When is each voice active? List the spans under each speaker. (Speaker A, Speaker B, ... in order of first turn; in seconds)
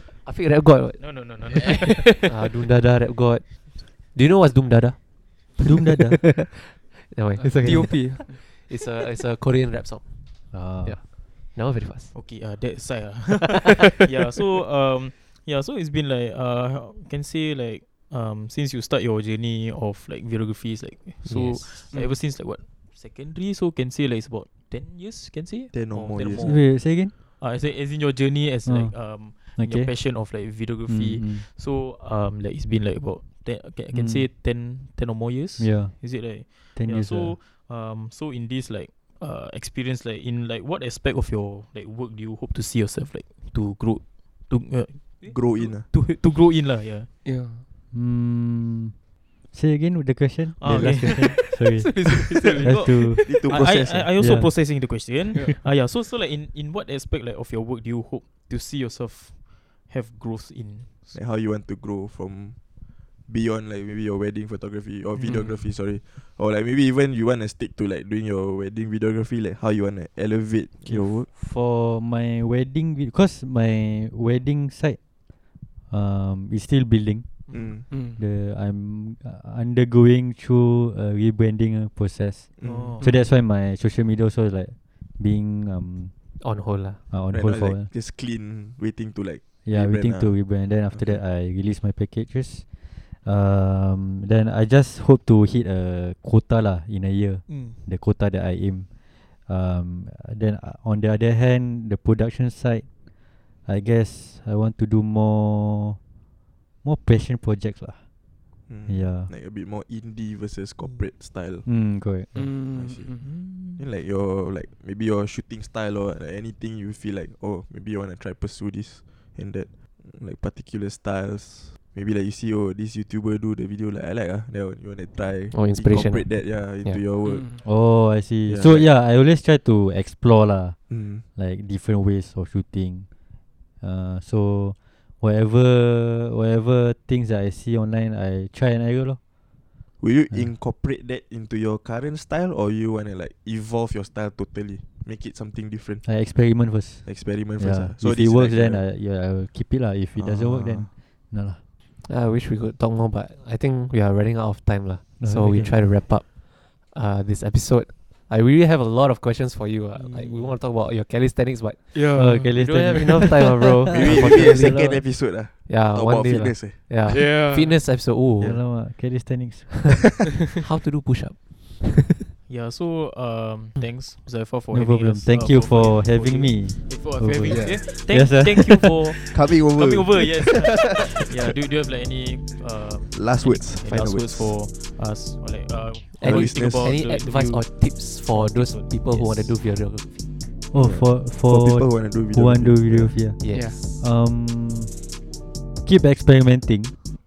Speaker A: 0.2-5.7, 6.5-12.2, 21.2-21.8, 86.4-87.0, 125.5-127.0, 152.0-165.0, 165.7-168.9, 170.6-172.0, 186.1-190.2, 193.4-194.1
Speaker B: 1.0-2.2, 12.1-47.1, 50.6-51.4, 52.1-61.2, 82.6-83.1, 97.5-97.8, 113.2-113.8, 160.0-160.6, 172.5-189.6
Speaker C: 5.6-6.3, 10.5-11.1, 26.3-27.1, 28.6-30.0, 30.9-31.4, 33.9-34.3, 35.6-37.4, 47.9-49.0, 49.5-53.2, 54.2-54.5, 70.8-75.0, 75.9-77.4, 77.9-86.1, 87.1-87.9, 89.7-92.7, 93.2-98.9, 99.5-102.9, 103.7-106.0, 106.8-108.0, 108.9-109.3, 111.7-112.7, 127.6-130.8, 131.3-133.1, 133.8-139.2, 146.0-151.6, 155.2-155.7, 162.1-165.1, 168.4-170.0, 174.7-179.2, 190.7-195.0, 195.8-196.9
Speaker D: 7.4-8.4, 21.9-22.2, 47.2-47.6, 50.7-53.1, 77.9-78.2, 112.3-113.3, 127.2-127.6, 161.9-162.9, 167.1-167.8, 177.5-178.0, 193.5-193.8
Speaker E: 25.7-26.5, 45.3-45.9, 53.2-54.1, 61.1-62.6, 63.3-71.3, 77.5-77.8, 82.6-83.0, 87.3-90.3, 90.9-91.2, 108.7-111.7, 112.7-113.1, 113.8-127.6, 128.5-128.9, 130.9-131.2, 140.0-146.1, 147.1-148.8, 150.2-150.9, 163.9-166.9, 179.3-181.2, 183.1-184.6, 186.2-187.0, 190.7-193.2